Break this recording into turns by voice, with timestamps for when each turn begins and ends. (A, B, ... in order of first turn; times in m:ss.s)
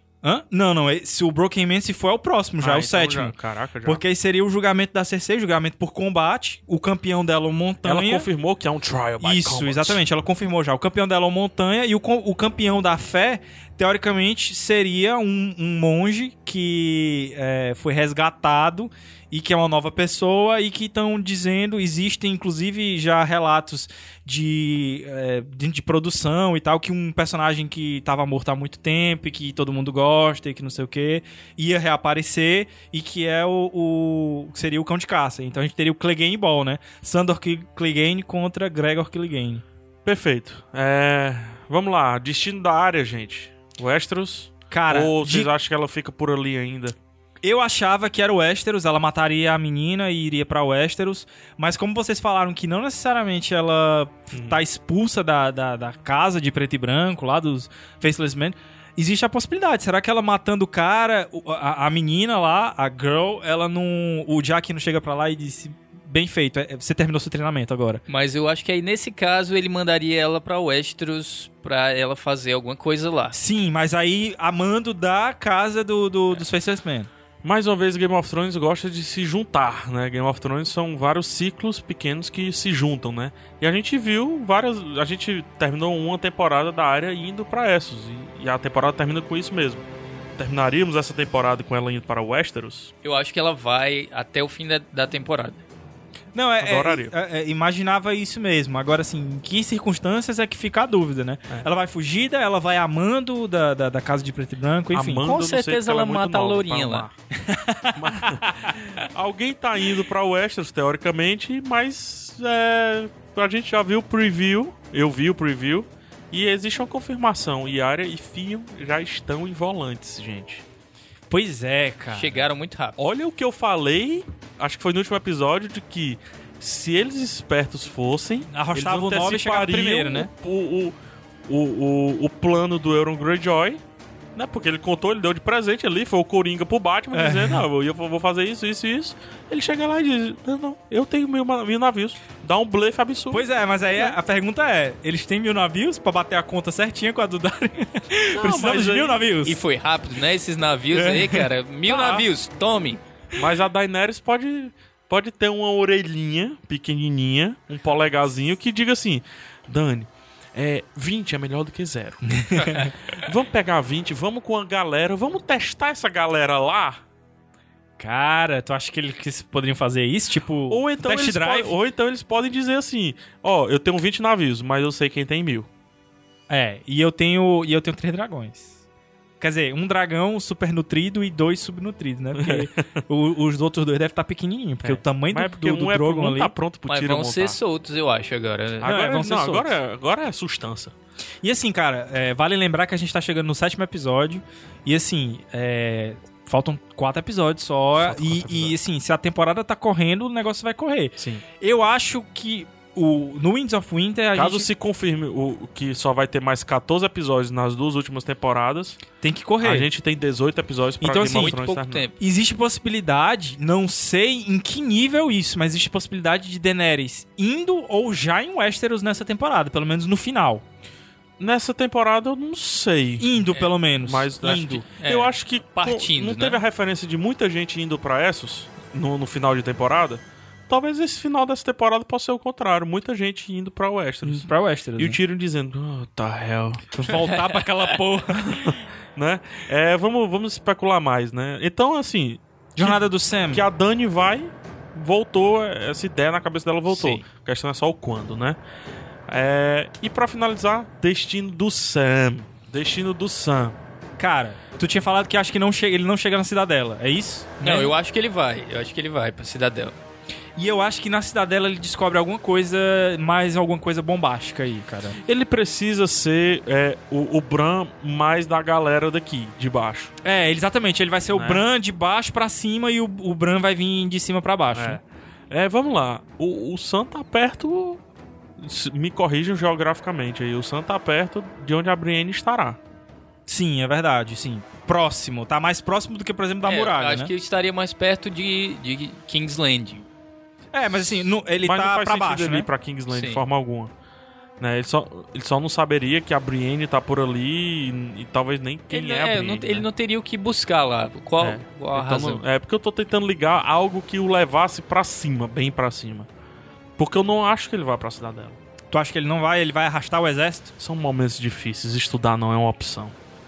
0:00.2-0:08.3 A
0:02.6-0:04.0 B
0:07.8-0:10.0 B
0:09.2-0:39.6 A
0:40.0-0:47.0 B
0:44.7-0:45.5 A
0:47.4-1:08.0 A
0:54.3-0:54.6 B
1:08.1-1:13.4 C
1:13.3-1:17.1 A
1:17.4-1:29.8 B
1:30.4-1:32.9 B
1:33.0-1:35.6 C
1:36.3-1:45.5 A
1:36.6-1:37.1 B
1:44.9-1:47.1 B
1:45.2-1:47.0 C
1:47.5-1:48.7 A
1:47.9-2:00.6 B
2:01.3-2:02.5 A
2:02.1-2:03.0 C
2:03.0-2:10.9 B
2:08.5-2:10.3 A
2:11.5-2:13.8 B
2:14.3-2:23.5 B
2:17.1-2:17.6 A
2:23.3-2:29.6 A
2:28.3-2:29.2 B
2:29.4-2:33.0 C
2:30.9-2:31.5 A
2:31.9-2:32.2 B
2:33.3-2:47.0 B
2:42.2-2:42.9 A
2:48.0-2:51.8 A
2:50.7-2:55.7 B
2:56.5-2:58.8 A
2:59.4-3:06.5 A
3:02.3-3:03.0 B
3:04.8-3:07.6 B
3:06.9-3:08.9 C
3:08.8-3:10.9 B
3:08.8-3:09.8 A
3:11.4-3:24.7 A
3:18.0-3:18.8 B
3:21.2-3:21.4 B
3:24.3-3:29.0 B
3:29.2-3:29.9 A
3:29.6-3:32.1 B
3:31.0-3:31.6 A
3:31.2-3:32.1 C
3:32.2-3:40.6 A
3:41.4-3:43.3 B
3:43.2-3:44.8 A
3:43.5-3:43.7 C
3:44.0-3:56.9 B
3:44.8-3:46.6 C
3:54.2-3:55.2 A
3:56.9-3:58.8 A
3:57.1-3:58.0 C
3:58.3-4:08.6 B
4:02.8-4:03.6 A
4:06.9-4:07.2 C
4:09.3-4:13.8 B
4:14.2-4:17.9 A
4:17.6-4:20.0 C
4:20.6-4:25.2 A
4:25.2-4:30.1 B
4:30.2-4:35.0 A
4:31.3-4:31.6 B
4:34.7-4:38.0 B
4:38.6-4:42.8 B
4:43.4-4:47.3 A
4:46.6-4:50.0 C
4:50.7-4:52.7 A
4:50.9-4:53.9 B
4:53.1-4:53.4 C
4:54.6-4:59.9 B
4:58.9-5:02.4 C
5:01.4-5:06.3 B
5:07.0-5:08.6 B
5:08.9-5:10.7 A
5:10.8-5:13.1 B